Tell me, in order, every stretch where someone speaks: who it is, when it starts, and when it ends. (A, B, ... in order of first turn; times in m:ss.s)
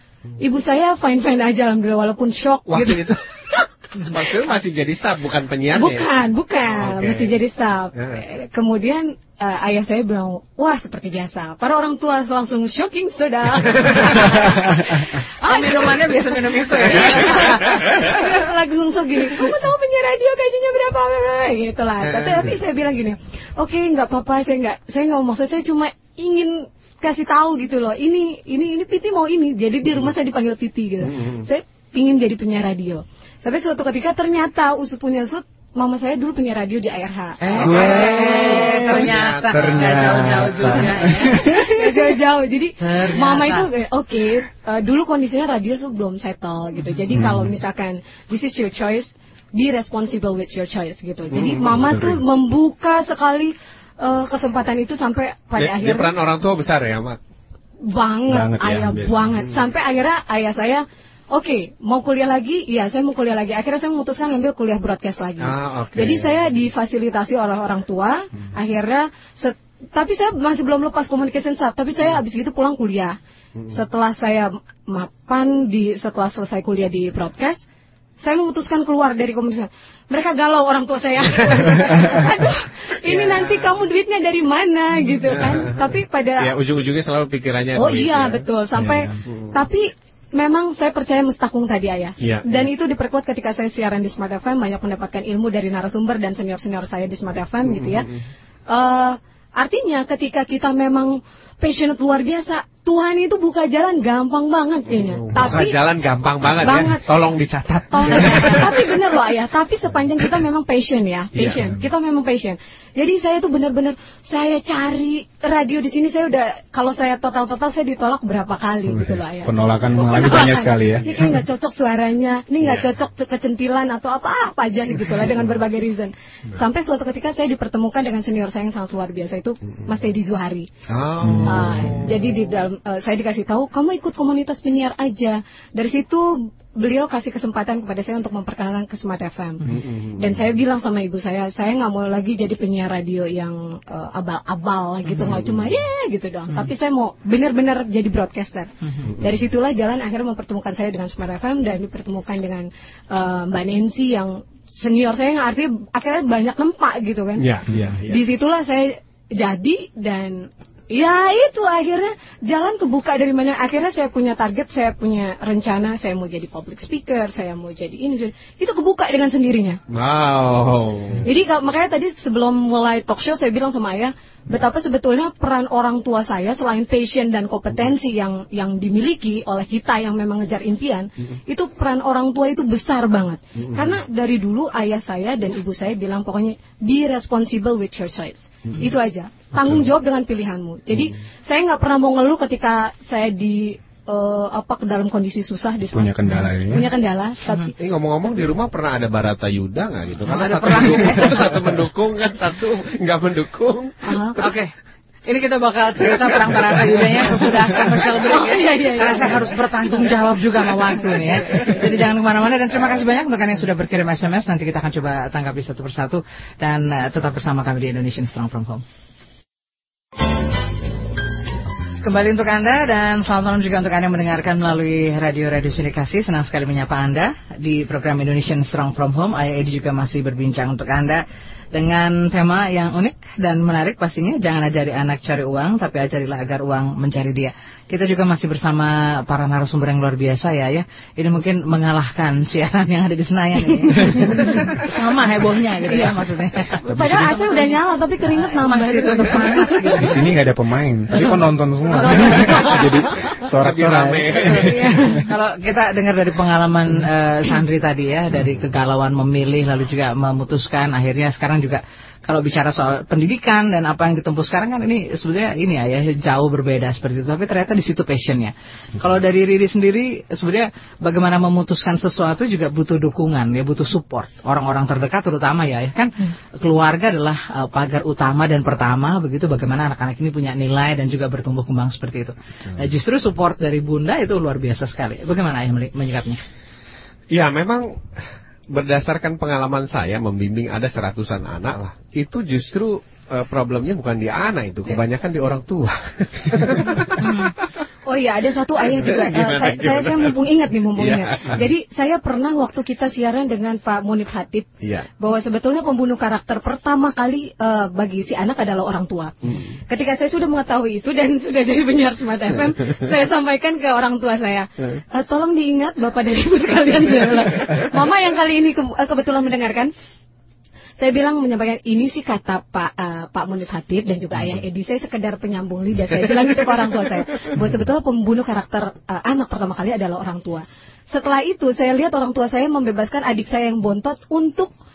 0:00.4-0:04.4 A
0:02.7-0:03.2 B
0:04.0-0:06.1 B
0:05.7-0:38.9 A
0:06.7-0:07.4 B
0:07.9-0:08.2 B
0:13.7-0:14.3 B
0:15.4-0:17.9 C
0:16.9-0:18.1 B
0:22.0-0:22.6 B
0:31.0-0:31.5 B
0:37.4-0:41.5 C
0:37.5-0:40.9 B
0:37.6-0:42.0 D
0:41.4-0:56.1 A
0:42.8-0:43.7 C
0:47.1-0:47.5 D
0:51.3-0:52.0 B
0:51.7-0:52.2 D
0:55.6-0:57.2 B
0:57.8-1:13.2 A
0:58.3-0:59.4 D
0:59.4-0:59.6 B
1:05.4-1:06.3 B
1:13.7-1:17.6 A
1:18.2-1:26.5 A
1:21.3-1:21.9 B
1:23.0-1:23.8 B
1:25.3-1:25.8 B
1:26.4-1:28.4 B
1:27.8-1:38.1 A
1:28.8-1:29.2 D
1:29.2-1:29.6 B
1:32.2-1:32.7 B
1:37.6-1:38.2 B
1:38.7-1:45.8 A
1:44.9-1:49.0 B
1:46.6-1:47.1 A
1:47.9-2:10.7 A
1:51.4-1:51.9 D
1:58.9-2:01.2 D
2:01.0-2:01.3 B
2:02.6-2:02.9 B
2:10.9-2:12.2 B
2:11.3-2:11.9 D
2:11.4-2:37.5 A
2:19.7-2:20.5 B
2:25.0-2:25.3 C
2:25.2-2:25.8 B
2:29.1-2:29.5 B
2:37.4-2:38.2 B
2:37.7-2:38.0 D
2:38.0-2:49.8 A
2:49.9-2:51.3 B
2:51.2-3:17.8 A
3:03.6-3:04.0 B
3:15.9-3:16.9 D
3:17.8-3:24.5 B
3:20.3-3:21.5 C
3:24.0-3:24.4 A
3:24.4-3:24.7 C
3:25.2-3:38.8 C
3:28.0-3:31.9 A
3:42.0-3:51.2 C
3:51.7-4:06.7 C
4:03.9-4:04.9 A
4:05.9-4:06.2 A
4:06.7-4:10.1 A
4:06.8-4:07.6 D
4:08.4-4:10.3 C
4:10.0-4:15.1 D
4:11.9-4:13.0 C
4:13.6-4:14.8 B
4:14.5-4:15.2 A
4:15.2-4:46.4 C
4:47.3-4:48.0 B
4:48.7-4:57.4 B
4:57.2-4:57.5 C
4:58.0-5:19.9 A
4:58.9-5:00.4 B
5:00.9-5:01.6 B
5:04.8-5:05.1 B
5:09.5-5:09.7 B
5:21.0-5:34.7 A